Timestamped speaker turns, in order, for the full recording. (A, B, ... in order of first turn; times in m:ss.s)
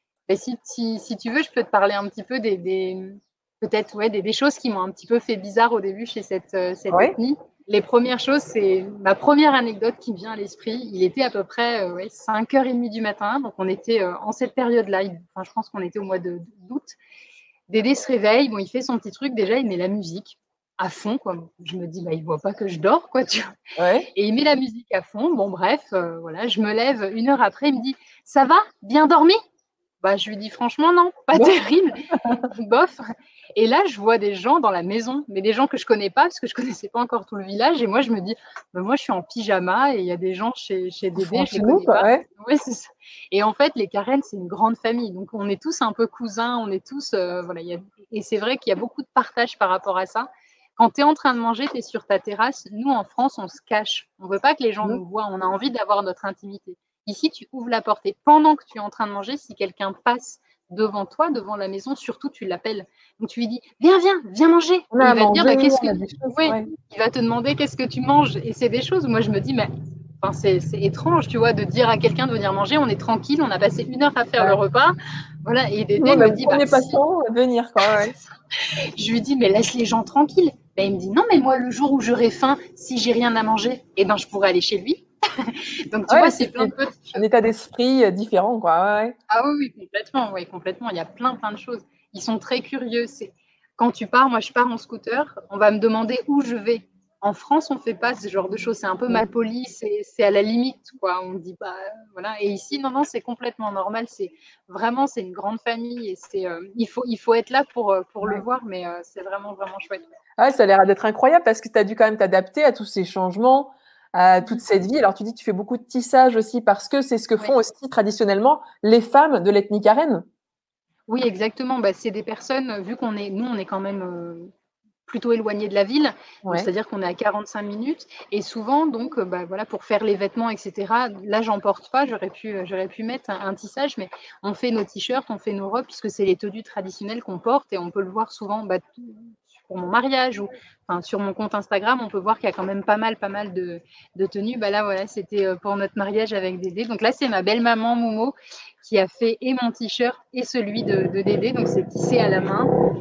0:00.3-0:17.0 A
0:17.7-0:23.5 A
0:23.8-0:24.1 B
0:24.1-0:29.4 A
0:30.0-0:32.0 A
0:32.1-0:32.4 B
0:32.5-0:33.0 A
0:33.6-1:09.7 A
0:41.2-0:42.2 B
1:04.9-1:06.7 B
1:10.2-1:17.0 A
1:16.0-1:18.1 B
1:17.8-1:27.2 A
1:26.1-1:29.2 B
1:29.3-1:50.0 A
1:50.4-2:00.2 B
2:01.1-2:04.5 A
2:05.1-2:32.7 A